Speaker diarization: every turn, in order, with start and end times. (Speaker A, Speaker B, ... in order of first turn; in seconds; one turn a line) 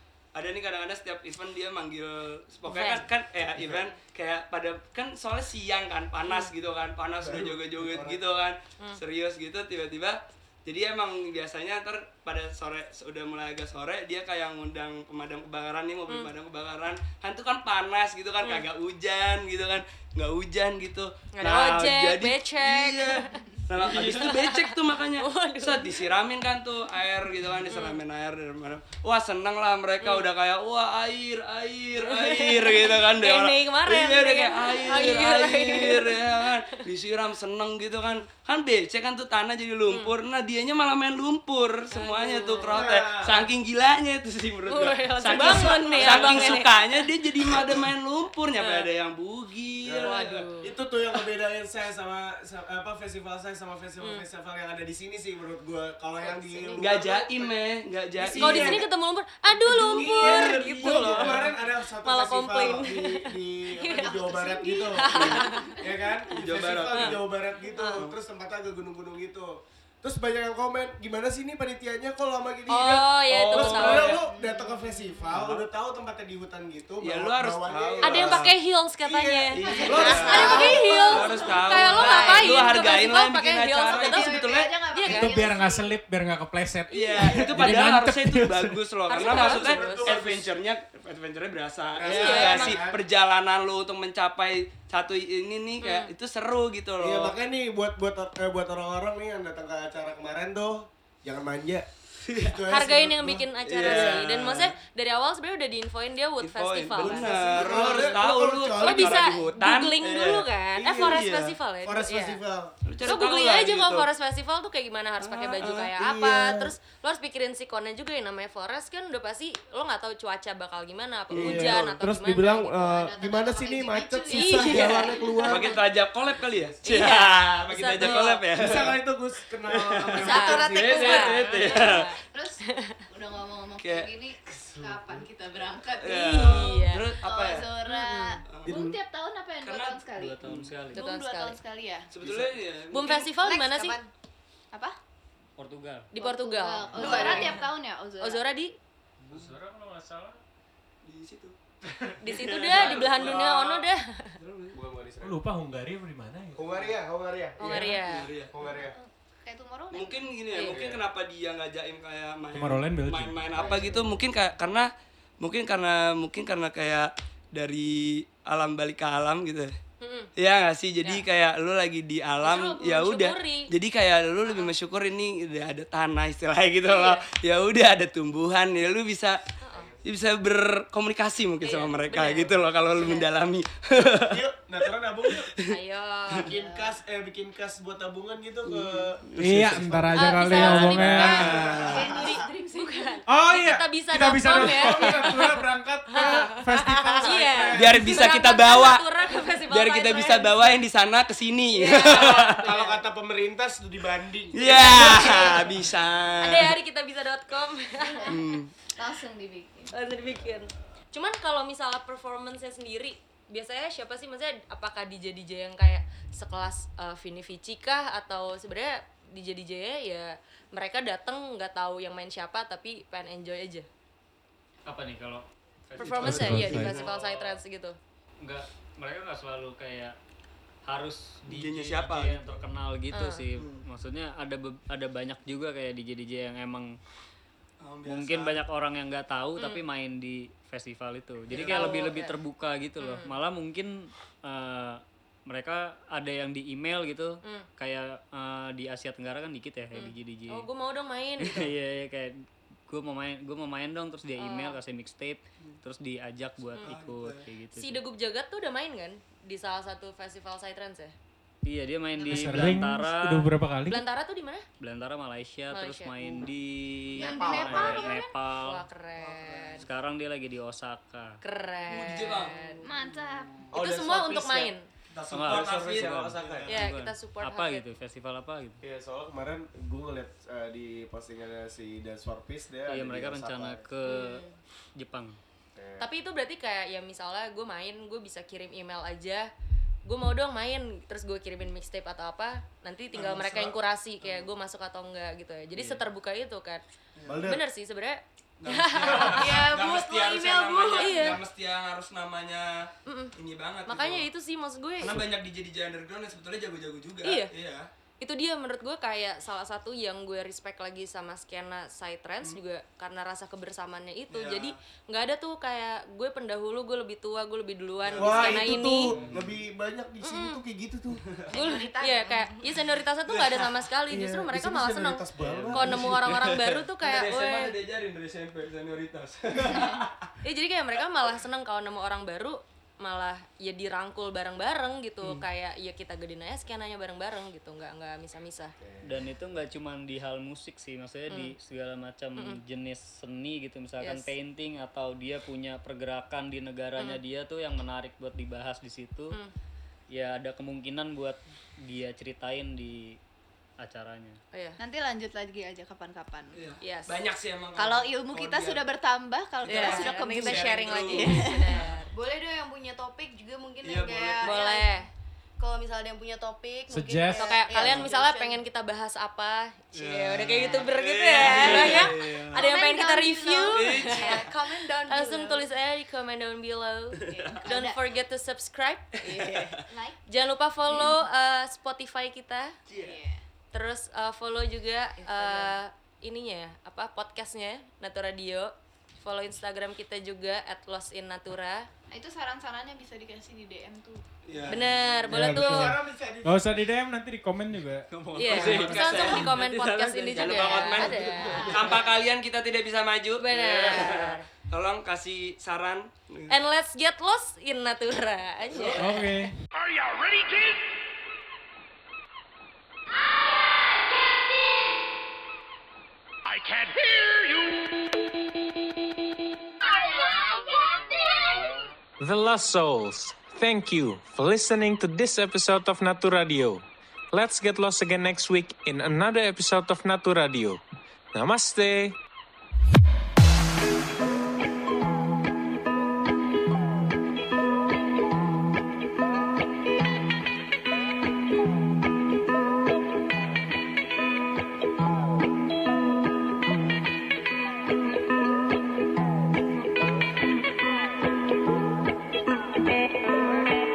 Speaker A: 0.3-50.5
Speaker B: 2.7-3.0
Speaker C: 3.5-3.9
Speaker C: 7.2-8.2
Speaker B: 21.4-26.0
Speaker B: 27.7-28.0
Speaker B: 30.0-30.3
Speaker B: 32.1-36.5
Speaker B: 41.9-42.8
Speaker C: 42.7-43.5
Speaker B: 44.7-46.8
Speaker C: 45.3-46.6
Speaker B: 48.6-48.9
Speaker C: 49.8-57.5
Speaker B: 50.0-50.7
Speaker B: 56.2-56.8
Speaker A: 56.8-58.8
Speaker C: 58.2-58.9
Speaker B: 58.4-61.5
Speaker C: 59.6-69.5
Speaker A: 59.8-61.5
Speaker B: 62.0-63.1
Speaker B: 63.8-65.7
Speaker D: 63.9-65.8
Speaker A: 66.4-67.2
Speaker B: 67.8-68.0
Speaker C: 70.0-78.5
Speaker B: 72.7-74.2
Speaker A: 73.3-74.2
Speaker D: 74.2-75.3
Speaker A: 75.3-75.7
Speaker A: 77.0-78.5
Speaker B: 78.0-84.4
Speaker C: 79.0-81.3
Speaker A: 79.5-84.7
Speaker D: 79.6-82.9
Speaker D: 83.9-86.0
Speaker B: 84.9-85.4
Speaker E: 85.0-88.8
Speaker A: 86.9-97.3
Speaker B: 89.1-90.1
Speaker C: 89.1-90.5
Speaker C: 92.0-93.0
Speaker B: 92.0-92.8
Speaker B: 95.8-96.1
Speaker C: 97.0-104.2
Speaker A: 102.3-102.6
Speaker B: 102.7-108.2
Speaker A: 103.7-104.8
Speaker A: 106.4-111.6
Speaker C: 107.0-109.3
Speaker B: 108.8-112.4
Speaker C: 110.8-112.7
Speaker A: 112.9-114.1
Speaker B: 113.0-123.0
Speaker A: 115.2-115.9
Speaker C: 115.9-116.7
Speaker A: 121.3-121.8
Speaker C: 121.3-125.8
Speaker D: 122.8-125.8
Speaker B: 124.3-125.5
Speaker A: 125.5-129.0
Speaker C: 126.3-127.1
Speaker B: 126.8-128.4
Speaker C: 128.0-131.4
Speaker A: 129.7-132.1
Speaker B: 130.2-133.0
Speaker F: 130.8-131.2
Speaker D: 131.6-142.1
Speaker A: 133.8-134.1
Speaker C: 134.8-135.1
Speaker A: 136.0-137.7
Speaker B: 136.1-137.1
Speaker B: 137.9-138.4
Speaker A: 138.5-138.8
Speaker C: 138.7-139.0
Speaker A: 139.6-140.7
Speaker G: 140.1-141.0
Speaker B: 140.9-141.6
Speaker A: 142.1-143.0
Speaker C: 142.2-142.6
Speaker B: 142.9-144.0
Speaker F: 143.4-144.1
Speaker G: 145.6-146.1
Speaker B: 146.1-147.7
Speaker D: 146.2-148.4
Speaker A: 147.0-147.3
Speaker C: 147.0-147.5
Speaker B: 148.2-148.8
Speaker E: 149.3-150.4
Speaker A: 151.0-151.6
Speaker B: 152.2-154.3
Speaker A: 152.2-153.8
Speaker A: 154.4-154.8
Speaker C: 154.7-155.4
Speaker E: 155.2-156.8
Speaker C: 156.6-159.0
Speaker B: 157.6-158.3
Speaker A: 157.7-158.5
Speaker D: 159.0-160.3
Speaker A: 159.9-164.9
Speaker B: 160.5-160.8
Speaker C: 160.6-161.0
Speaker E: 162.5-163.6
Speaker C: 163.6-164.2
Speaker A: 165.4-169.7
Speaker B: 170.0-170.3
Speaker A: 170.4-179.4
Speaker B: 172.4-173.7
Speaker B: 176.8-177.2
Speaker B: 179.6-179.9
Speaker C: 179.7-180.0
Speaker A: 180.0-184.4
Speaker B: 181.6-183.2
Speaker C: 184.2-185.5
Speaker A: 185.3-185.6
Speaker B: 185.7-186.5
Speaker C: 186.4-192.4
Speaker D: 186.6-186.9
Speaker A: 188.7-189.9
Speaker E: 189.4-191.7
Speaker B: 190.2-195.4
Speaker A: 190.5-192.0
Speaker D: 191.2-193.2
Speaker E: 193.3-195.6
Speaker C: 194.6-198.1
Speaker E: 196.1-198.2
Speaker B: 196.1-200.7
Speaker A: 197.8-199.1
Speaker A: 199.7-202.7
Speaker B: 201.8-202.7
Speaker C: 202.1-205.8
Speaker A: 204.5-206.8
Speaker B: 204.7-205.6
Speaker B: 206.4-208.3
Speaker D: 208.0-208.4
Speaker A: 208.3-208.7
Speaker D: 209.0-209.9
Speaker B: 209.9-223.9
Speaker G: 224.9-227.6
Speaker B: 226.0-228.0
Speaker E: 226.2-227.1
Speaker A: 226.4-226.9
Speaker G: 228.4-230.2
Speaker G: 230.9-236.9
Speaker A: 231.5-232.6
Speaker B: 233.1-233.4
Speaker A: 233.6-233.8
Speaker A: 237.8-238.6
Speaker G: 238.1-250.7
Speaker B: 239.6-239.8
Speaker A: 241.5-242.0
Speaker B: 241.6-242.4
Speaker B: 243.0-243.3
Speaker B: 249.9-251.7
Speaker G: 251.5-252.3
Speaker G: 252.9-258.0
Speaker B: 254.4-254.8
Speaker A: 256.8-257.5
Speaker B: 257.7-261.1
Speaker G: 261.6-263.6
Speaker E: 262.3-264.0
Speaker B: 263.9-264.7
Speaker G: 264.8-268.9
Speaker B: 265.7-266.5
Speaker D: 267.2-268.2
Speaker C: 267.2-267.9
Speaker B: 267.7-269.9
Speaker G: 269.8-271.4
Speaker B: 271.4-272.8
Speaker A: 271.9-272.6
Speaker D: 272.8-273.6
Speaker C: 273.7-276.8
Speaker B: 273.7-274.9
Speaker A: 275.2-276.7
Speaker G: 275.3-278.8
Speaker B: 276.7-277.8
Speaker C: 278.8-283.9
Speaker G: 282.9-284.5
Speaker B: 284.1-284.5
Speaker G: 285.0-285.4
Speaker C: 285.8-286.1
Speaker B: 286.0-289.5
Speaker B: 290.1-296.8
Speaker A: 293.1-293.7
Speaker G: 295.8-296.0
Speaker A: 297.2-297.4
Speaker C: 297.3-297.6
Speaker B: 297.4-299.5
Speaker A: 298.6-304.3
Speaker F: 299.3-301.3
Speaker B: 300.9-301.4
Speaker B: 303.1-303.3
Speaker B: 303.9-305.2
Speaker A: 305.0-307.9
Speaker B: 308.2-319.1
Speaker A: 314.3-314.8
Speaker A: 318.0-319.5
Speaker C: 318.2-321.2
Speaker B: 320.2-320.6
Speaker D: 321.5-322.7
Speaker B: 321.5-327.7
Speaker A: 323.3-323.6
Speaker C: 324.1-326.1
Speaker A: 325.4-330.1
Speaker D: 329.6-330.0
Speaker B: 330.4-338.7
Speaker C: 338.8-339.2
Speaker G: 339.0-349.4
Speaker B: 344.0-344.3
Speaker G: 350.1-353.2
Speaker G: 353.8-354.4
Speaker B: 354.5-354.8
Speaker D: 354.8-356.6
Speaker A: 356.6-358.9
Speaker B: 356.8-357.2
Speaker D: 357.8-361.9
Speaker A: 359.7-361.6
Speaker B: 359.7-362.1
Speaker F: 362.1-364.9
Speaker A: 363.8-364.5
Speaker B: 364.4-365.1
Speaker F: 365.6-368.6
Speaker E: 366.9-367.6
Speaker B: 367.4-374.5
Speaker A: 370.0-372.6
Speaker F: 371.6-372.0
Speaker D: 372.6-374.6
Speaker F: 372.6-375.6
Speaker A: 373.8-374.4
Speaker B: 375.1-379.7
Speaker D: 377.3-378.0
Speaker D: 379.8-380.2
Speaker B: 380.3-382.8
Speaker D: 383.0-383.4
Speaker B: 383.7-391.9
Speaker D: 392.1-394.2
Speaker A: 394.5-394.9
Speaker B: 394.7-395.9
Speaker E: 395.3-398.9
Speaker C: 395.3-396.6
Speaker G: 398.1-400.8
Speaker B: 398.4-401.8
Speaker A: 398.5-399.6
Speaker A: 400.3-406.5
Speaker D: 400.8-402.1
Speaker B: 403.4-404.5
Speaker B: 406.5-409.3
Speaker A: 408.7-409.0
Speaker E: 409.0-409.6
Speaker H: 409.7-410.8
Speaker H: 416.4-417.8
Speaker I: 422.2-430.8
Speaker I: 431.3-432.2